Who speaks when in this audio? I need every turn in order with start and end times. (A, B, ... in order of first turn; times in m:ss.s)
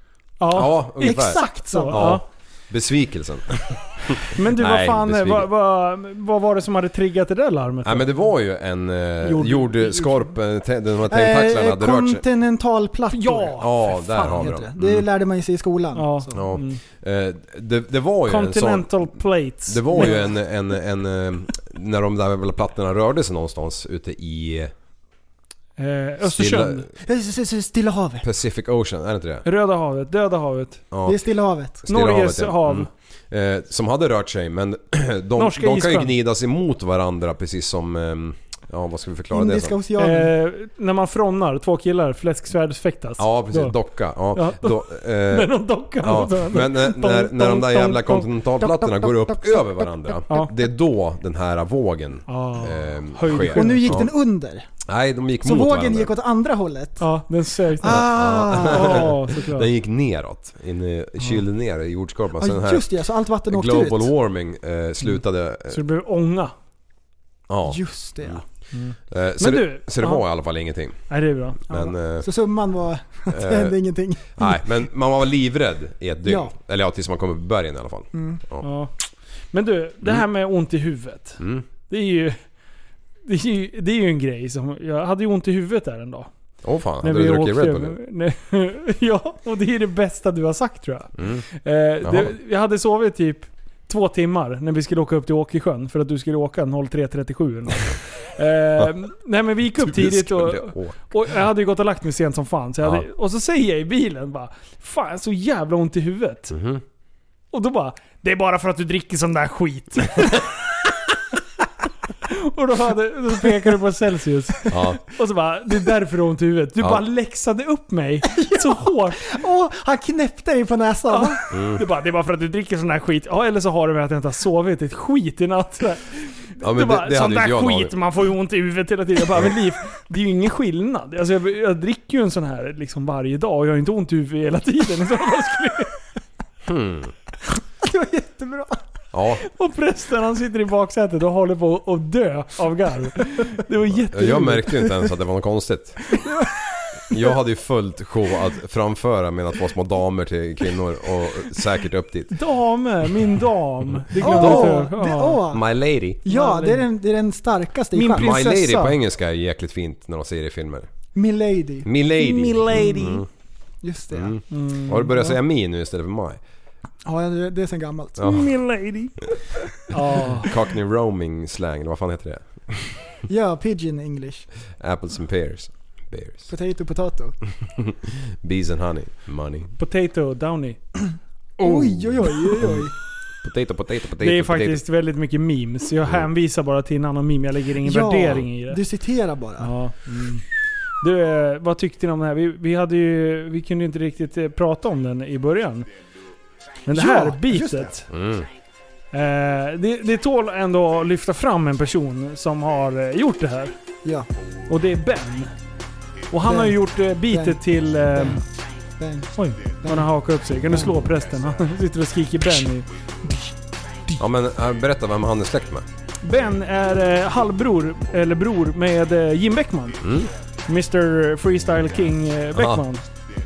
0:00.4-0:02.2 A
0:00.5-0:05.5 B
0:01.0-0:02.2 C
0:04.4-0:08.1 A
0:07.8-0:12.2 B
0:09.2-0:10.2 A
0:11.1-0:16.4 C
0:13.1-0:13.7 A
0:13.6-0:15.1 B
0:16.0-0:16.8 A
0:16.3-0:19.1 B
0:18.3-0:20.3 A
0:19.7-0:24.7 B
0:19.9-0:20.3 C
0:25.8-0:26.8 A
0:26.2-0:26.9 B
0:27.0-0:28.3 C
0:28.2-0:29.5 B
0:29.4-0:30.8 A
0:30.9-0:31.2 B
0:31.1-0:31.8 C
0:31.8-0:39.8 B
0:31.9-0:32.9 A
0:35.4-0:36.1 A
0:39.3-0:40.3 C
0:40.0-0:43.8 A
0:43.2-0:54.1 B
0:44.3-0:48.3 A
0:48.6-0:49.9 C
0:52.3-0:54.0 A
0:53.5-0:54.7 C
0:54.9-0:56.1 B
0:55.4-0:57.1 C
0:57.0-0:58.1 A
0:57.8-0:59.1 C
0:57.8-1:02.9 B
0:58.6-0:59.7 A
1:02.4-1:04.1 C
1:03.5-1:05.8 B
1:05.7-1:06.5 A
1:07.5-1:08.4 B
1:07.6-1:08.4 C
1:08.7-1:10.2 A
1:09.1-1:11.1 B
1:11.1-1:11.7 A
1:11.7-1:12.3 B
1:11.7-1:14.6 C
1:13.3-1:13.8 B
1:14.4-1:18.7 B
1:16.2-1:16.5 C
1:18.1-1:18.4 C
1:18.6-1:18.9 A
1:19.5-1:22.4 A
1:21.4-1:21.6 B
1:23.3-1:26.3 A
1:26.6-1:28.0 B
1:27.0-1:46.5 A
1:31.2-1:31.4 B
1:32.0-1:32.3 B
1:39.8-1:41.0 B
1:46.5-1:46.8 B
1:47.5-1:50.5 A
1:52.2-1:59.2 A
1:54.7-1:55.0 B
1:58.3-2:01.4 C
2:01.1-2:16.0 A
2:01.5-2:01.8 B
2:06.6-2:08.0 B
2:16.7-2:17.1 B
2:17.8-2:18.8 C
2:19.1-2:19.4 B
2:19.4-2:24.9 A
2:24.1-2:26.2 B
2:26.2-2:26.6 C
2:27.1-2:32.4 B
2:32.3-2:35.4 A
2:34.2-2:34.8 B
2:34.2-2:35.6 C
2:35.5-2:36.2 B
2:36.2-2:38.4 C
2:36.3-2:36.8 A
2:37.9-2:39.0 A
2:38.1-2:40.9 B
2:41.2-2:41.9 C
2:41.8-2:43.3 B
2:42.2-2:43.2 A
2:43.8-2:44.4 C
2:44.1-2:46.4 B
2:44.5-2:45.3 A
2:47.0-2:48.3 C
2:48.2-2:48.5 B
2:48.2-2:49.2 A
2:49.9-2:50.5 A
2:50.4-2:53.2 B
2:53.3-2:54.5 C
2:54.8-2:56.5 B
2:56.5-2:57.4 C
2:57.8-2:59.7 B
2:59.8-3:00.8 A
3:01.6-3:02.9 C
3:01.6-3:02.9 B
3:03.4-3:04.8 B
3:04.2-3:08.8 A
3:07.8-3:09.7 C
3:09.6-3:10.4 A
3:11.0-3:15.9 A
3:16.9-3:18.1 A
3:16.9-3:18.0 C
3:18.1-3:18.5 B
3:19.1-3:23.7 A
3:24.7-3:25.5 A
3:26.3-3:28.4 A
3:26.4-3:26.8 C
3:27.3-3:27.6 C
3:28.1-3:28.4 C
3:29.0-3:30.1 C
3:29.4-3:32.9 A
3:30.7-3:31.0 C
3:34.2-3:35.9 B
3:36.2-3:40.1 A
3:40.0-3:40.3 B
3:40.7-3:43.0 A
3:42.5-3:42.8 B